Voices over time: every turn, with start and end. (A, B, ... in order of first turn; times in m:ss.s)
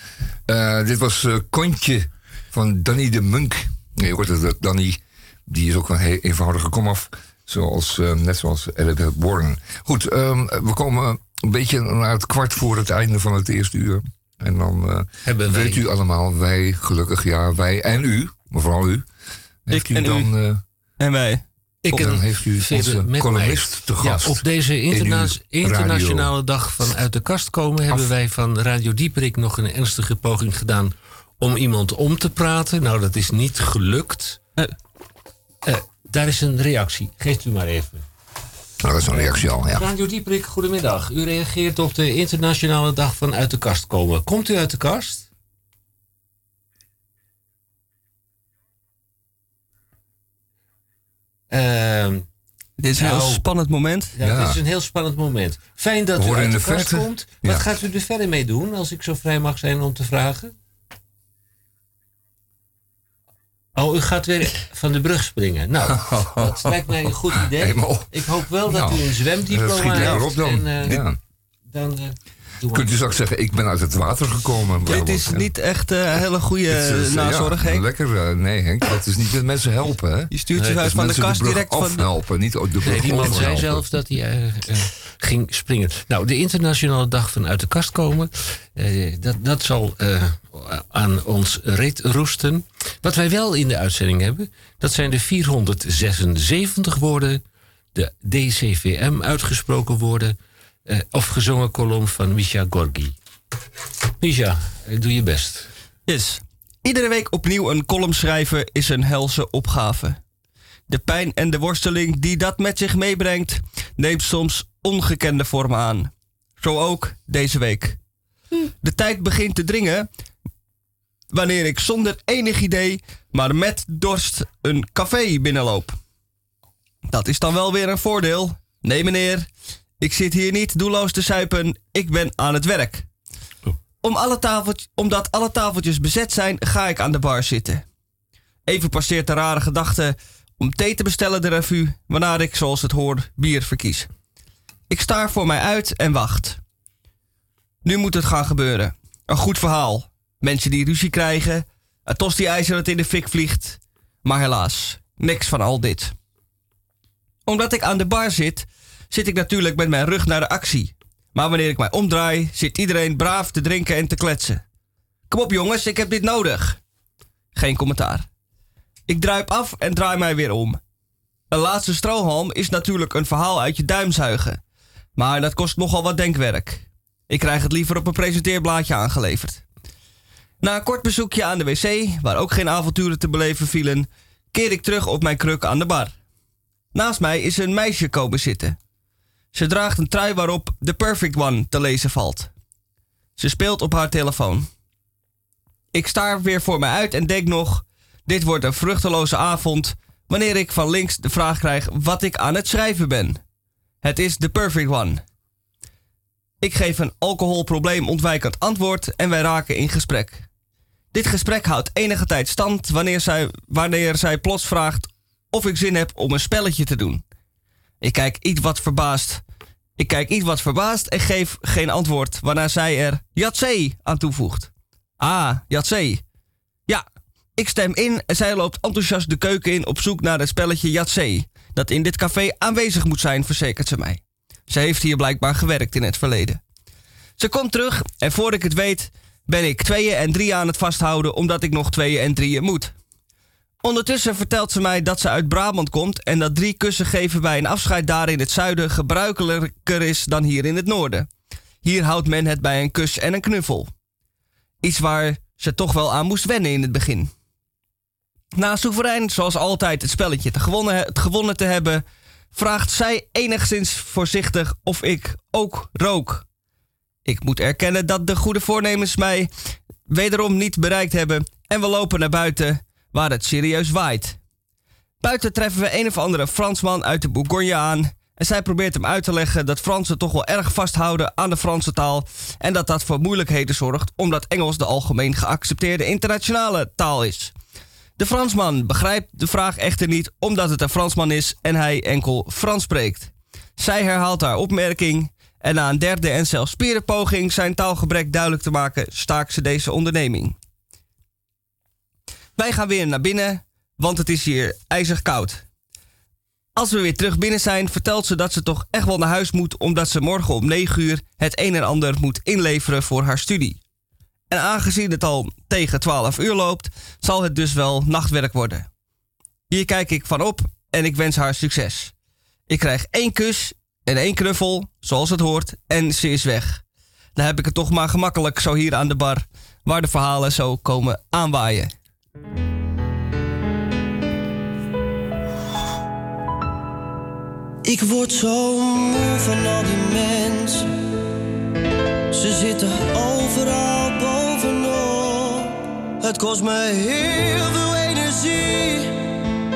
0:00.5-0:19.1 A
0:15.2-0:15.9 B
0:19.6-0:20.6 A
0:19.7-0:20.3 C
0:21.0-0:22.1 C
0:21.8-0:34.4 B
0:21.9-0:26.3 A
0:35.6-0:38.0 B
0:38.8-0:39.9 A
0:39.1-0:45.2 B
0:51.5-0:52.2 B
0:52.8-0:54.1 C
0:53.0-0:53.4 B
0:54.2-1:00.5 B
0:54.2-0:54.6 A
0:56.2-0:57.7 A
1:03.8-1:11.0 B
1:05.9-1:06.7 A
1:07.3-1:11.2 A
1:11.7-1:12.9 B
1:12.7-1:15.5 A
1:14.8-1:17.8 C
1:16.7-1:23.8 A
1:20.3-1:22.0 C
1:22.8-1:37.4 B
1:37.9-1:40.4 B
1:40.9-1:43.1 B
1:44.2-1:45.7 B
1:46.1-1:50.2 C
1:50.9-1:58.0 C
1:58.6-2:00.1 C
2:01.3-2:06.0 C
2:07.1-2:09.4 C
2:10.0-2:13.0 C
2:14.0-2:17.8 C
2:18.7-2:24.1 C
2:24.9-2:26.6 C
2:27.8-2:36.1 C
2:37.4-2:44.6 C
2:45.3-2:46.8 C
2:47.6-2:48.2 C
2:49.1-2:50.8 C
2:51.5-2:54.6 C
2:55.2-2:59.6 C
3:00.6-3:06.1 C
3:06.9-3:08.8 C
3:09.5-3:12.5 C
3:13.4-3:14.7 C
3:15.9-3:23.4 C
3:24.0-3:25.2 C
3:26.6-3:30.5 C
3:31.1-3:37.2 C
3:38.0-3:39.4 C
3:40.0-3:46.2 C
3:47.6-3:56.6 C
3:57.4-4:02.9 C
4:03.8-4:11.3 C
4:11.8-4:13.9 C
4:14.8-4:17.3 C
4:18.5-4:22.0 C
4:22.5-4:26.4 C
4:27.2-4:29.5 C
4:30.1-4:34.4 C
4:35.2-4:47.5 C
4:48.2-5:00.6 C
5:02.6-5:05.6 C
5:06.8-5:13.8 C
5:14.5-5:18.9 C
5:19.7-5:22.1 C
5:22.7-5:26.8 C
5:27.4-5:31.9 C
5:37.8-5:40.9 D
5:42.3-5:49.2 D